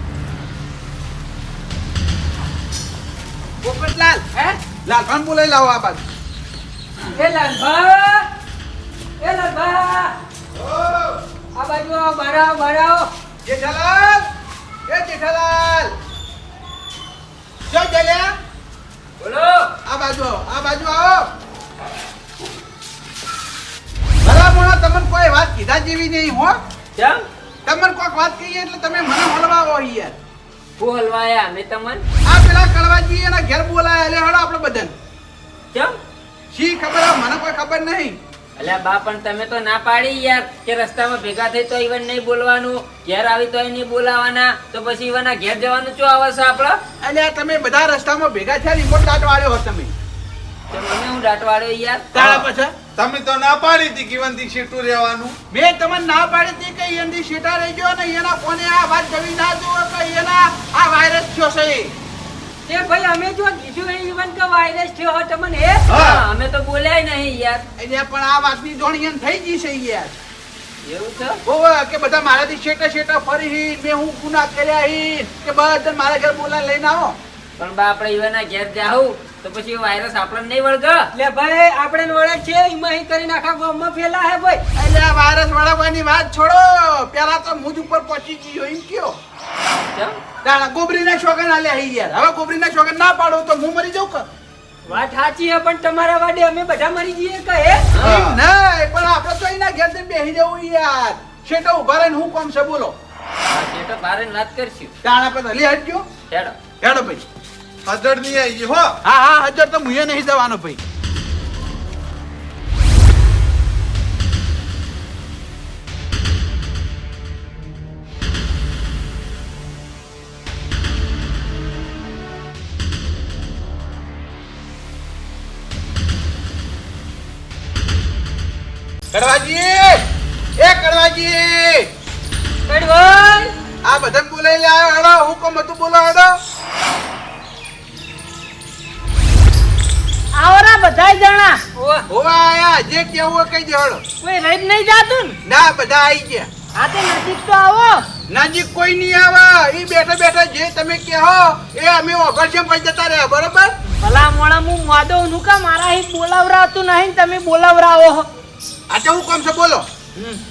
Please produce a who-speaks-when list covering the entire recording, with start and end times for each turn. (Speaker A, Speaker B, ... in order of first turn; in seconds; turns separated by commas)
Speaker A: 3.6-4.2, Speaker A: 4.8-6.1, Speaker B: 7.1-8.3, Speaker B: 9.2-10.2, Speaker C: 10.6-11.2, Speaker B: 11.6-13.1, Speaker A: 13.4-14.3, Speaker A: 14.9-15.9, Speaker A: 17.7-18.3, Speaker D: 19.2-19.7, Speaker A: 19.9-21.3, Speaker A: 24.2-26.6, Speaker D: 27.0-27.2, Speaker A: 27.7-30.1, Speaker D: 30.8-32.0, Speaker A: 32.3-34.9, Speaker A: 36.5-38.2, Speaker D: 38.6-46.8, Speaker A: 47.0-49.9, Speaker D: 50.7-52.1, Speaker A: 52.1-52.8, Speaker C: 53.0-55.4, Speaker A: 55.5-62.0, Speaker B: 62.7-65.9, Speaker D: 65.9-67.6, Speaker C: 65.9-66.2, Speaker A: 67.8-70.1, Speaker D: 70.9-71.4, Speaker A: 71.5-77.2, Speaker D: 77.6-81.1, Speaker B: 81.1-84.6, Speaker A: 84.8-89.2, Speaker A: 90.4-94.3, Speaker B: 94.9-97.9, Speaker D: 97.9-98.4, Speaker A: 98.0-103.0, Speaker D: 103.5-104.9, Speaker A: 105.0-106.1, Speaker D: 106.3-106.5, Speaker A: 106.8-107.2, Speaker C: 107.9-109.0, Speaker A: 109.0-110.8, Speaker A: 129.1-130.1, Speaker A: 130.6-131.9, Speaker B: 132.7-133.5, Speaker A: 133.8-136.4, Speaker E: 140.3-141.6, Speaker B: 141.8-142.1, Speaker A: 142.1-144.0, Speaker E: 144.2-145.4, Speaker A: 145.5-146.5, Speaker E: 146.8-148.1, Speaker A: 148.3-153.7, Speaker E: 154.0-158.3, Speaker A: 158.9-160.3